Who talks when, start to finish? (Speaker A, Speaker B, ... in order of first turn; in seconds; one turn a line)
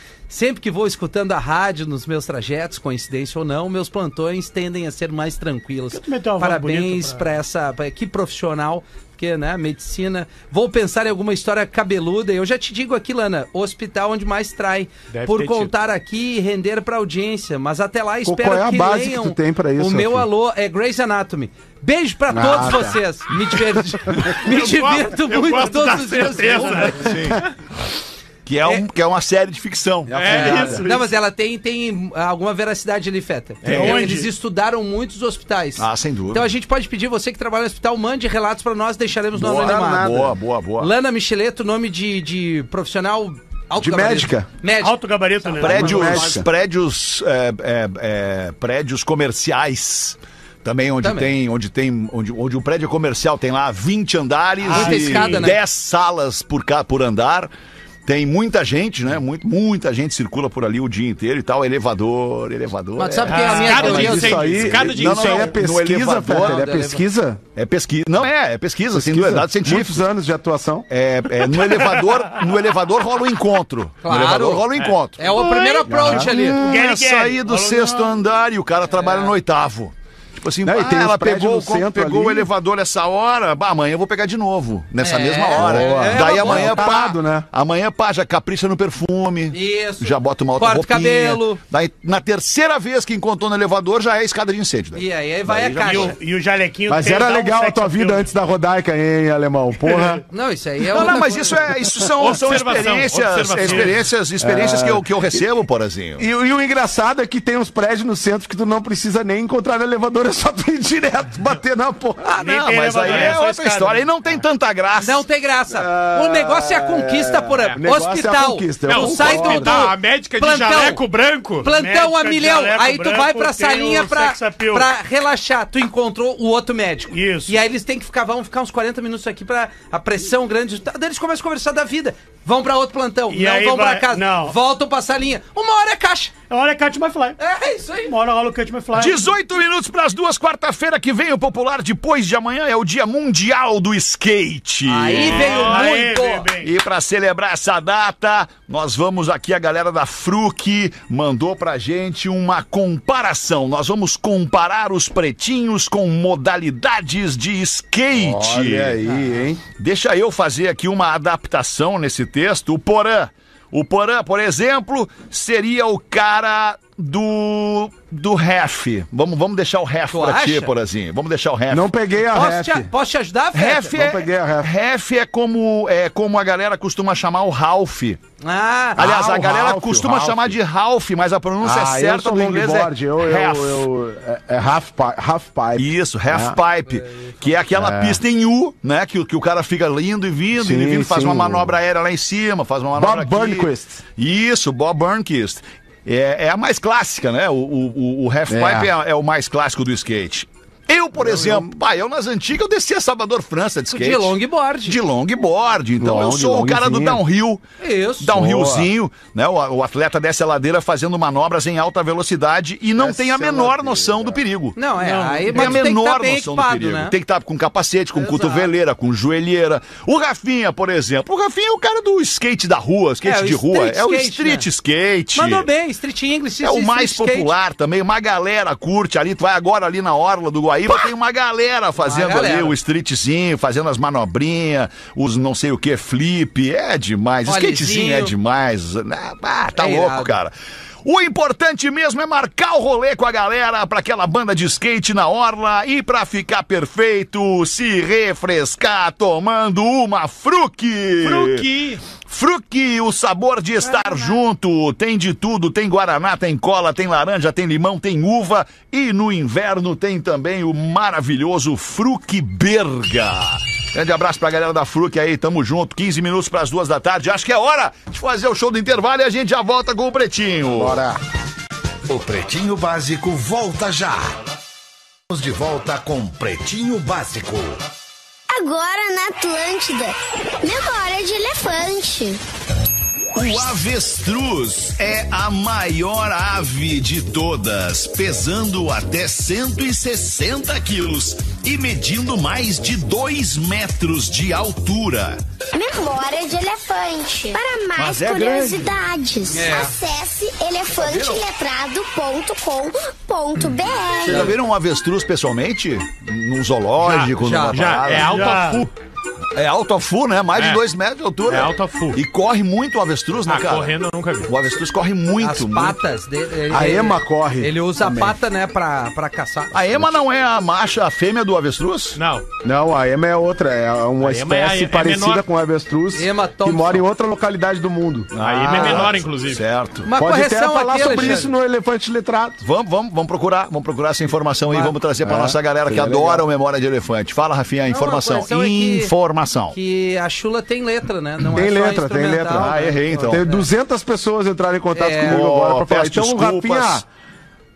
Speaker A: 0.3-27.1
Speaker B: 5.9-7.3
Speaker C: 15.1-15.7
Speaker D: 18.2-20.3
Speaker D: 22.3-23.0
Speaker C: 24.4-27.5
Speaker E: 27.0-27.4
Speaker E: 28.5-30.5
Speaker D: 30.1-30.9
Speaker C: 30.1-31.1
Speaker A: 30.2-40.3
Speaker C: 33.6-34.0
Speaker B: 33.7-34.3
Speaker E: 35.8-36.5
Speaker D: 39.4-40.4
Speaker E: 39.4-40.9
Speaker A: 40.8-46.3
Speaker D: 43.8-44.5
Speaker B: 44.8-46.2
Speaker E: 45.6-57.5
Speaker D: 45.6-46.5
Speaker A: 51.0-51.3
Speaker B: 54.6-55.5
Speaker A: 54.7-55.6
Speaker E: 58.1-66.9
Speaker A: 63.0-64.5
Speaker B: 63.3-64.0
Speaker C: 63.4-65.6
Speaker D: 63.8-67.4
Speaker A: 66.3-67.0
Speaker E: 67.5-70.0
Speaker D: 68.9-70.9
Speaker E: 70.9-75.4
Speaker A: 74.0-76.6
Speaker B: 75.3-78.2
Speaker D: 75.9-76.4
Speaker E: 76.1-96.2
Speaker A: 78.9-79.3
Speaker D: 80.6-82.5
Speaker A: 85.0-87.0
Speaker D: 85.5-87.5
Speaker A: 89.5-91.6
Speaker A: 94.9-96.2
Speaker B: 95.8-98.3
Speaker D: 96.9-100.2
Speaker A: 100.3-101.6
Speaker E: 100.9-106.2
Speaker C: 102.2-104.1
Speaker B: 103.6-103.9
Speaker D: 104.4-105.4
Speaker D: 106.2-112.3
Speaker E: 112.3-115.2
Speaker B: 112.3-114.0
Speaker A: 115.0-121.0
Speaker D: 115.7-119.8
Speaker C: 118.9-121.7
Speaker A: 121.6-136.3
Speaker B: 121.7-124.9
Speaker B: 127.1-127.6
Speaker B: 133.3-134.6
Speaker B: 136.5-137.4
Speaker A: 137.4-138.2
Speaker B: 138.1-139.3
Speaker E: 138.9-145.9
Speaker A: 144.9-146.5
Speaker B: 145.2-146.7
Speaker C: 145.4-145.8
Speaker E: 146.6-159.0
Speaker D: 158.1-159.6
Speaker E: 159.8-171.9
Speaker A: 170.1-170.7
Speaker D: 171.7-172.9
Speaker A: 172.3-173.9
Speaker E: 173.5-178.2
Speaker D: 173.9-174.7
Speaker A: 178.4-179.0
Speaker E: 179.0-183.8
Speaker D: 179.0-180.6
Speaker D: 181.6-186.6
Speaker E: 185.8-207.6
Speaker A: 187.0-187.4
Speaker D: 187.7-188.2
Speaker D: 190.5-191.8
Speaker D: 192.9-194.0
Speaker D: 198.5-198.9
Speaker D: 201.2-201.8
Speaker A: 203.9-205.0
Speaker D: 206.0-207.2
Speaker A: 207.8-208.5
Speaker E: 208.2-214.8
Speaker D: 208.3-208.9
Speaker D: 213.0-214.4
Speaker A: 214.8-217.2
Speaker B: 215.0-215.8
Speaker E: 215.5-225.7
Speaker A: 218.2-218.7
Speaker A: 223.2-224.7
Speaker A: 225.3-227.5
Speaker E: 226.6-240.5
Speaker A: 232.0-232.8
Speaker A: 237.5-238.3
Speaker A: 239.8-240.4
Speaker E: 241.0-251.7
Speaker C: 251.2-252.0
Speaker E: 252.2-271.0
Speaker D: 270.7-271.2
Speaker F: 272.1-274.3
Speaker F: 275.3-277.8
Speaker G: 278.5-282.4
Speaker E: 283.4-295.4
Speaker G: 295.7-304.5
Speaker E: 298.0-298.9
Speaker A: 299.5-299.9
Speaker E: 301.0-301.4
Speaker E: 304.2-308.6
Speaker A: 304.3-304.6
Speaker C: 307.0-308.9
Speaker A: 307.4-308.0
Speaker B: 308.2-308.9
Speaker E: 309.5-316.0
Speaker C: 310.6-310.8
Speaker C: 311.4-312.2
Speaker C: 313.5-314.5
Speaker A: 315.4-320.1
Speaker D: 316.7-317.8
Speaker E: 318.0-318.4
Speaker E: 319.7-322.2
Speaker C: 322.1-322.5
Speaker D: 322.6-328.3
Speaker C: 324.2-325.4
Speaker A: 326.1-327.1
Speaker E: 328.3-330.1
Speaker C: 328.4-329.6
Speaker A: 330.1-331.5
Speaker D: 330.1-332.6
Speaker E: 331.0-331.4
Speaker E: 332.6-339.8
Speaker D: 334.7-336.5
Speaker A: 337.9-339.1
Speaker A: 339.7-343.7
Speaker D: 341.5-347.1
Speaker E: 342.6-343.4
Speaker A: 344.9-345.4
Speaker E: 345.2-347.0